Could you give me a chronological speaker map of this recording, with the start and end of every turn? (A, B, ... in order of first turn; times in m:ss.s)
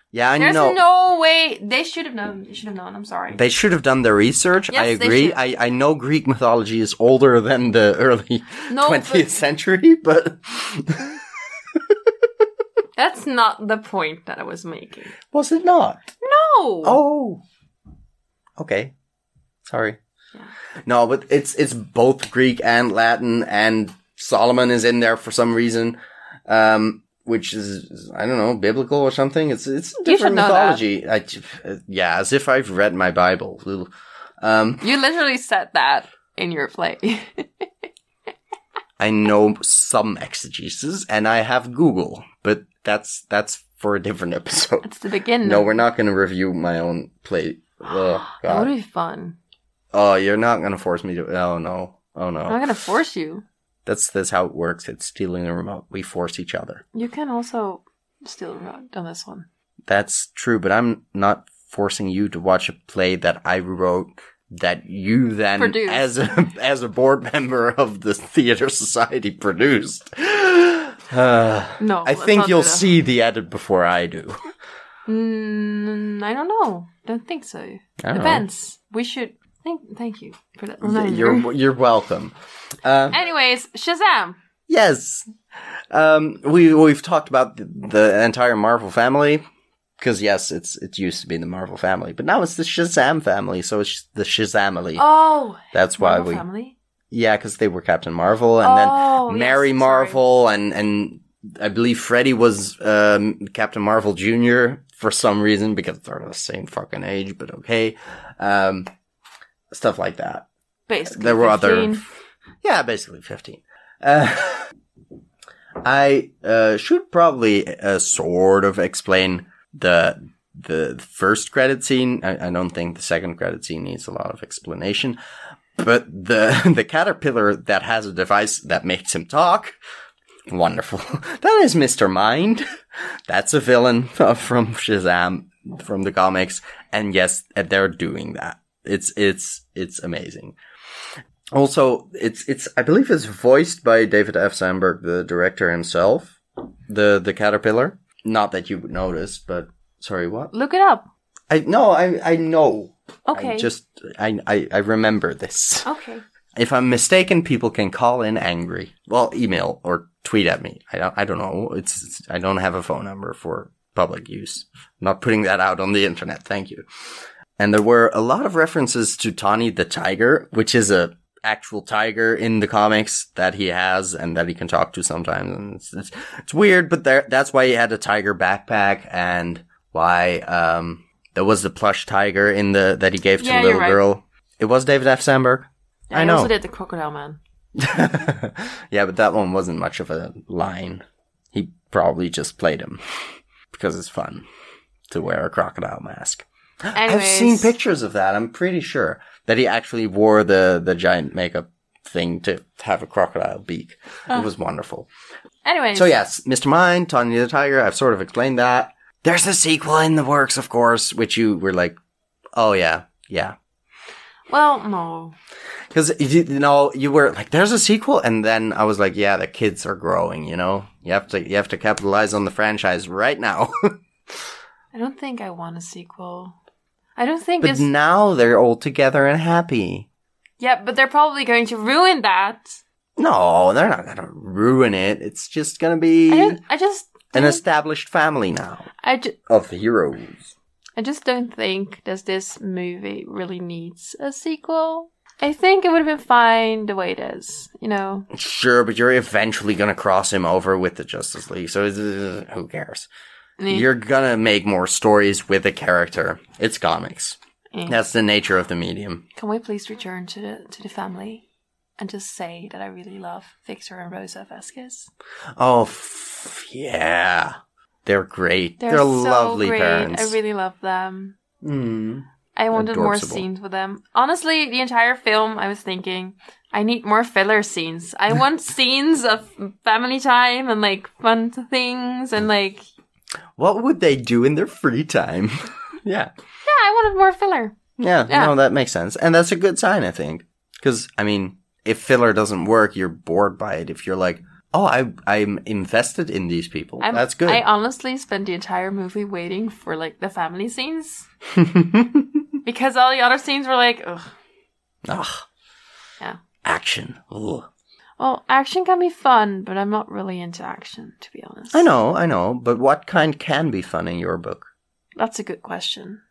0:00.1-0:00.8 A
0:00.4-0:03.4 B
0:03.3-0:12.3 A
0:04.7-0:05.4 B
0:08.7-0:09.4 B
0:13.0-0:15.2 B
0:15.3-0:16.0 A
0:16.2-0:17.0 B
0:16.8-0:17.4 A
0:18.6-0:18.9 A
0:19.6-0:20.0 A
0:20.9-0:34.9 A
0:30.0-0:30.8 B
0:34.8-0:37.7 B
0:39.0-0:44.9 A
0:44.8-0:45.8 B
0:45.4-0:48.7 A
0:48.2-0:49.4 B
0:49.9-0:52.6 A
0:52.5-0:53.4 B
0:53.9-0:56.8 A
0:56.9-0:59.5 B
0:59.9-1:14.4 A
1:05.6-1:06.0 B
1:11.8-1:12.9 B
1:15.1-1:21.5 B
1:18.0-1:18.4 A
1:20.8-1:23.2 A
1:23.1-1:24.4 B
1:24.7-1:25.3 A
1:25.9-1:29.4 A
1:30.0-1:35.1 A
1:35.0-1:36.8 B
1:35.7-1:36.4 A
1:37.1-1:48.9 A
1:38.6-1:40.2 B
1:49.7-1:50.5 A
1:50.9-1:52.0 B
1:51.1-1:52.0 A
1:52.6-1:54.7 A
1:55.8-2:05.2 A
2:05.8-2:09.8 A
2:10.5-2:12.6 A
2:13.3-2:20.6 A
2:21.5-2:26.4 A
2:26.9-2:30.5 A
2:30.5-2:31.1 B
2:31.5-2:35.9 A
2:33.3-2:33.7 B
2:35.8-2:36.2 B
2:36.6-2:46.8 A
2:47.6-3:06.5 A
3:03.4-3:04.0 B
3:06.1-3:07.4 B
3:07.8-3:13.0 A
3:13.7-3:14.5 A
3:15.1-3:25.1 A
3:16.9-3:17.7 B
3:25.6-3:26.1 B
3:25.9-3:32.0 A
3:32.6-3:33.6 A
3:34.5-3:35.4 B
3:35.9-3:44.0 A
3:44.9-3:46.6 B
3:47.2-3:47.9 B
3:47.6-3:50.1 A
3:50.6-3:52.8 B
3:53.2-3:56.6 A
3:56.3-3:57.6 B
3:57.3-3:58.9 A
3:59.0-3:59.4 B
3:59.5-4:00.5 A
4:01.0-4:08.3 B
4:08.3-4:13.1 A
4:13.6-4:13.9 B
4:13.7-4:19.3 A
4:17.7-4:18.0 B
4:19.4-4:21.4 B
4:22.0-4:25.1 B
4:25.6-4:30.4 A
4:28.8-4:31.4 B
4:31.6-4:33.4 A
4:32.6-4:42.9 B
4:43.6-4:46.3 A
4:46.6-4:47.8 B
4:48.0-4:57.6 A
4:48.3-4:48.5 B
4:57.0-5:01.3 B
5:01.6-5:02.4 A
5:02.6-5:04.3 B
5:05.1-5:05.5 A
5:06.6-5:07.7 A
5:08.2-5:11.9 B
5:11.7-5:14.7 A
5:15.2-5:16.2 B